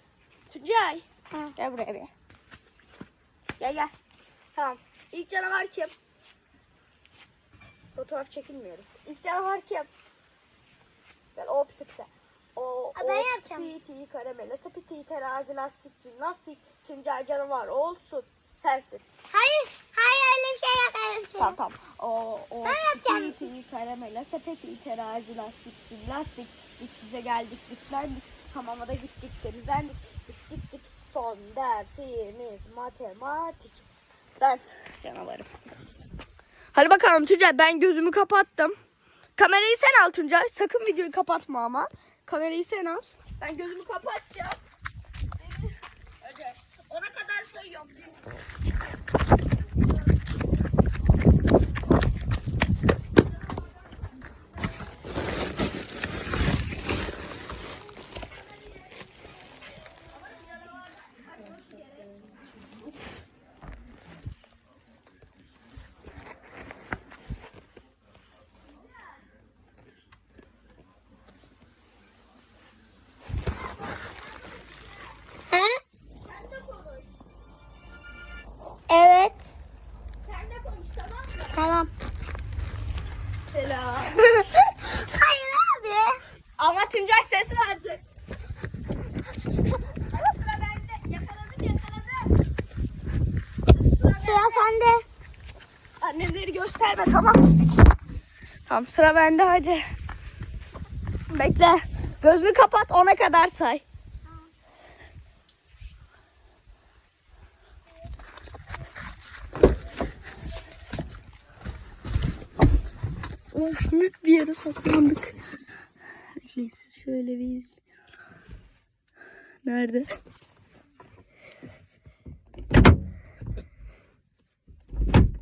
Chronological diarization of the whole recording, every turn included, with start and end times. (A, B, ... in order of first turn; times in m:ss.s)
0:00.5-0:01.0 A
0:01.6-0:02.1 A
0:03.6-0:03.9 A
0:04.6-0:05.9 A
0:08.0-0:09.9 A
0:11.4-0:19.0 A
0:13.0-0:13.7 B
0:19.3-0:21.6 B
0:21.4-0:33.9 A
0:22.6-0:23.4 B
0:34.4-0:35.5 A
0:36.7-0:38.8 A
0:39.4-0:44.6 A
0:45.4-0:48.3 A
1:00.1-1:02.2 A
1:08.8-1:09.2 A
1:13.8-1:15.2 A
1:15.5-1:15.8 B
1:16.2-1:17.1 A
1:18.9-1:19.5 B
1:20.2-1:21.6 A
1:21.5-1:21.9 B
1:23.5-1:24.3 A
1:24.2-1:26.2 B
1:26.6-1:28.0 A
1:29.9-1:32.3 A
1:33.7-1:34.7 A
1:34.2-1:35.1 B
1:36.0-1:37.5 A
1:38.7-1:39.8 A
1:41.3-1:43.8 A
1:53.5-1:55.4 A
1:56.4-1:57.8 A
1:59.6-2:00.1 A